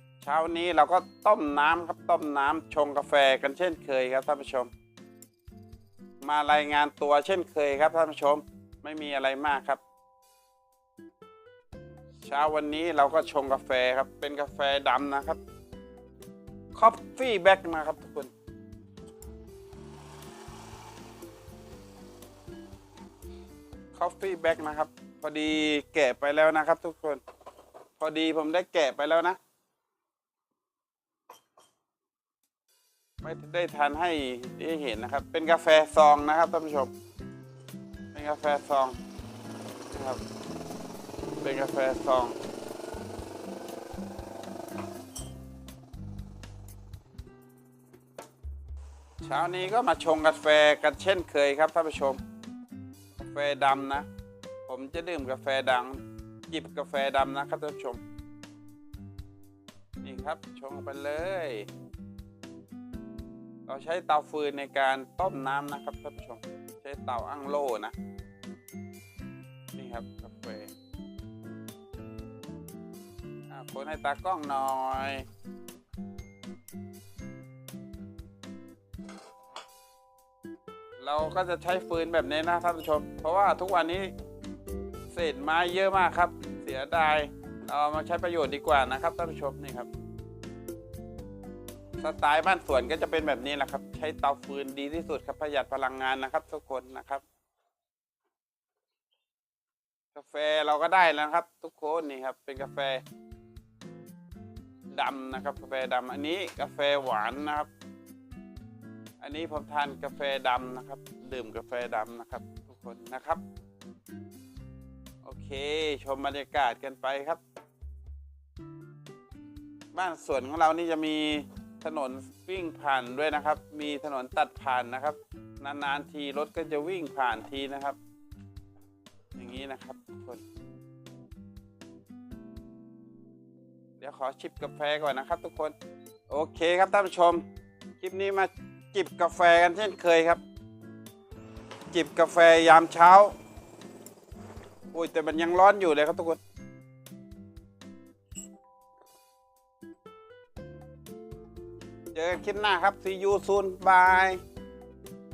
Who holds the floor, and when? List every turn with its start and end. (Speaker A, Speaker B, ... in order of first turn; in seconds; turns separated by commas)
Speaker A: 0.2-4.7, Speaker A: 6.2-9.8, Speaker A: 12.2-15.4, Speaker A: 16.7-18.3, Speaker A: 23.9-27.2, Speaker A: 28.0-29.4, Speaker A: 33.2-36.9, Speaker A: 38.1-39.0, Speaker A: 39.9-40.2, Speaker A: 41.4-42.4, Speaker A: 49.2-52.2, Speaker A: 53.2-54.1, Speaker A: 54.7-58.0, Speaker A: 60.0-61.7, Speaker A: 63.6-67.9, Speaker A: 69.7-70.7, Speaker A: 73.5-75.3, Speaker A: 81.0-84.1, Speaker A: 85.1-89.9, Speaker A: 92.0-97.2, Speaker A: 100.1-103.0, Speaker A: 104.9-107.7, Speaker A: 109.2-113.4, Speaker A: 115.2-117.4, Speaker A: 119.9-128.0, Speaker A: 129.3-130.4, Speaker A: 134.0-135.7, Speaker A: 136.3-137.4, Speaker A: 138.0-140.4, Speaker A: 141.9-143.3, Speaker A: 144.9-146.4, Speaker A: 152.1-154.4